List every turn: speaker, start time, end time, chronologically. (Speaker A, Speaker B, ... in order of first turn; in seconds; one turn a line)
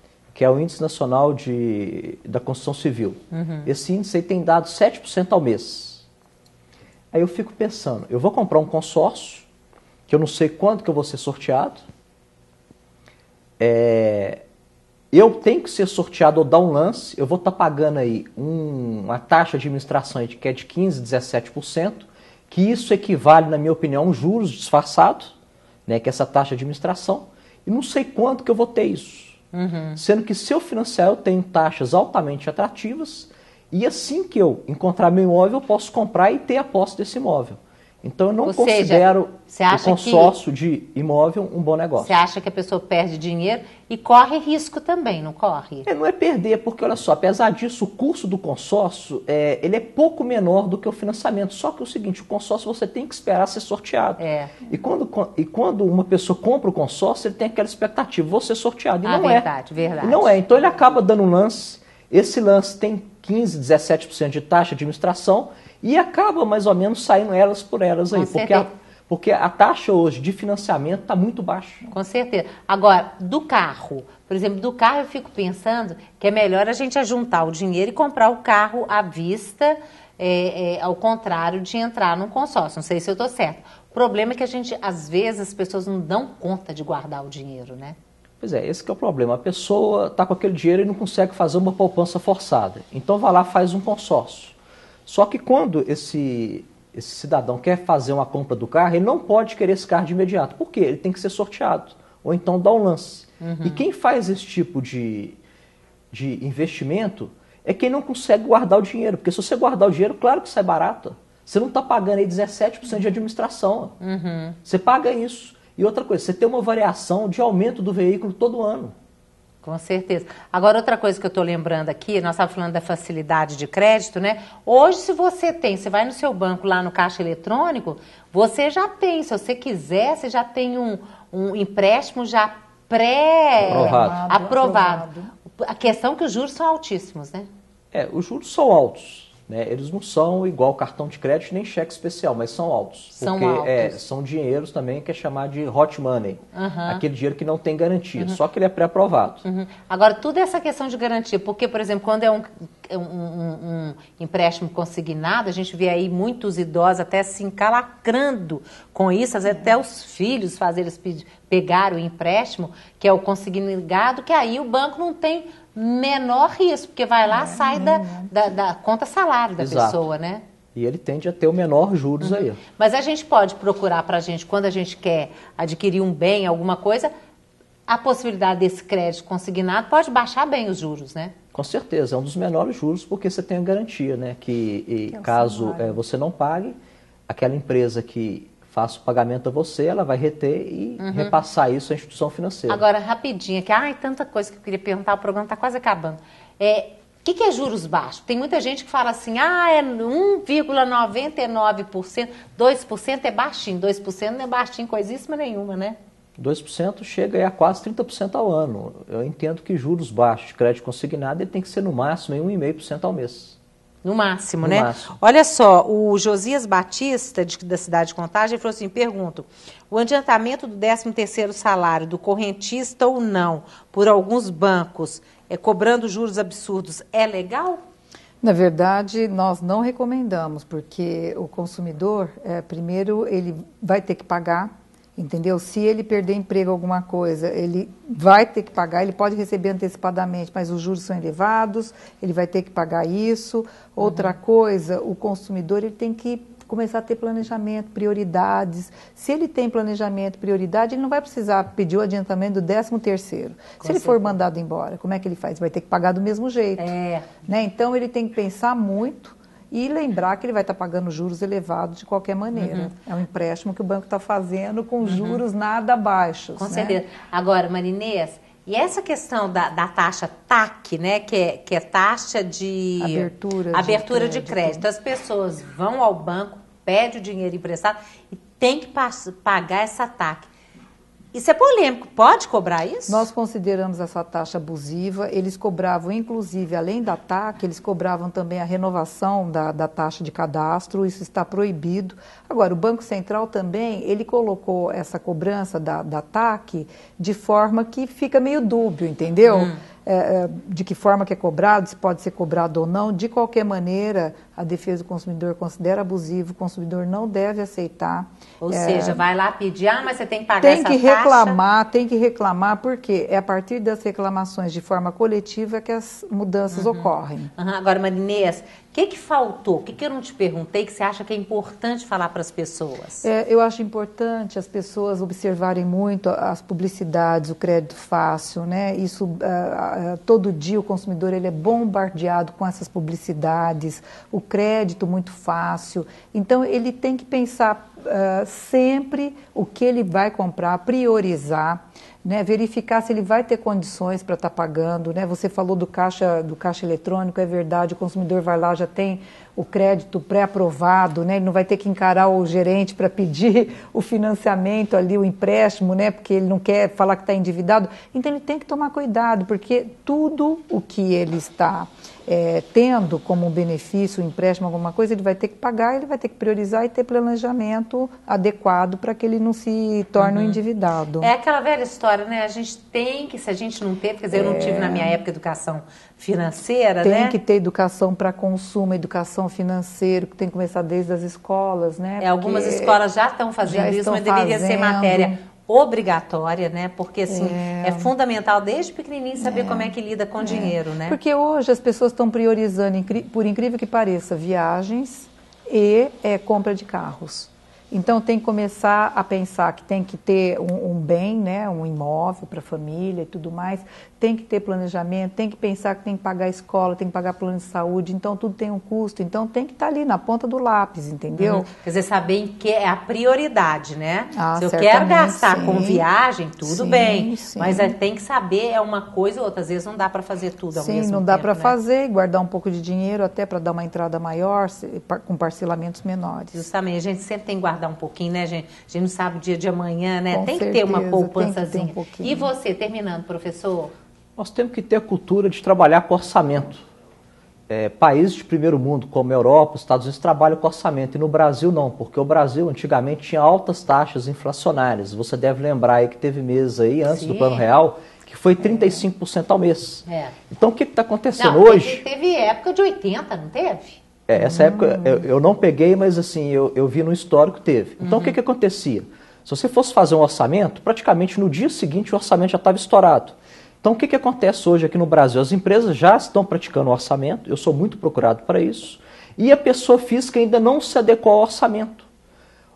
Speaker A: 0.3-6.0
Speaker B: 3.3-3.7
Speaker A: 7.1-9.5
Speaker A: 10.1-11.8
Speaker A: 13.6-14.4
Speaker A: 15.1-25.3
Speaker A: 25.9-29.4
Speaker B: 29.5-30.0
Speaker A: 29.9-42.1
Speaker B: 38.4-40.3
Speaker B: 42.0-45.9
Speaker A: 45.9-59.5
Speaker B: 54.2-54.5
Speaker B: 59.0-60.4
Speaker A: 60.0-71.8
Speaker B: 68.1-68.7
Speaker B: 71.9-88.0
Speaker A: 88.4-94.5
Speaker A: 95.1-105.4
Speaker B: 103.4-103.8
Speaker A: 106.1-114.0
Speaker B: 114.0-114.6
Speaker A: 114.6-118.9
Speaker B: 119.6-137.5
Speaker C: 133.6-135.3
Speaker A: 133.6-134.2
Speaker A: 137.9-149.4
Speaker B: 143.2-144.0
Speaker B: 146.5-147.0
Speaker B: 149.4-170.4
Speaker C: 167.3-168.3
Speaker A: 169.6-170.0
Speaker A: 170.7-172.6
Speaker B: 172.2-177.1
Speaker B: 177.9-181.3
Speaker A: 181.5-186.8
Speaker C: 185.1-186.0
Speaker A: 187.3-192.8
Speaker B: 191.0-191.3
Speaker B: 192.7-206.0
Speaker A: 206.4-213.6
Speaker B: 214.0-227.8
Speaker A: 214.6-215.2
Speaker C: 228.4-256.9
Speaker B: 244.0-244.3
Speaker B: 253.8-254.3
Speaker B: 256.8-257.3
Speaker C: 257.4-267.0
Speaker B: 262.5-262.9
Speaker B: 265.0-265.4
Speaker B: 266.6-280.5
Speaker C: 273.0-274.8
Speaker B: 281.3-283.3
Speaker C: 283.1-309.2
Speaker B: 299.5-299.8
Speaker B: 308.6-311.6
Speaker C: 310.6-317.5
Speaker B: 316.7-323.3
Speaker C: 323.2-371.3
Speaker B: 370.2-370.6
Speaker B: 371.2-377.4
Speaker C: 374.3-375.2
Speaker C: 377.0-383.0
Speaker B: 382.2-391.2
Speaker C: 383.6-385.4
Speaker C: 387.3-388.1
Speaker C: 389.4-411.7
Speaker B: 411.4-421.8
Speaker C: 414.3-416.1
Speaker C: 416.6-417.9
Speaker C: 420.7-426.6
Speaker B: 426.5-433.9
Speaker C: 430.3-432.5
Speaker A: 434.4-436.8
Speaker A: 437.7-452.0
Speaker B: 447.1-447.6
Speaker C: 448.6-449.0
Speaker B: 450.1-450.3
Speaker B: 451.4-454.0
Speaker A: 454.3-472.1
Speaker C: 454.4-455.2
Speaker B: 458.0-458.4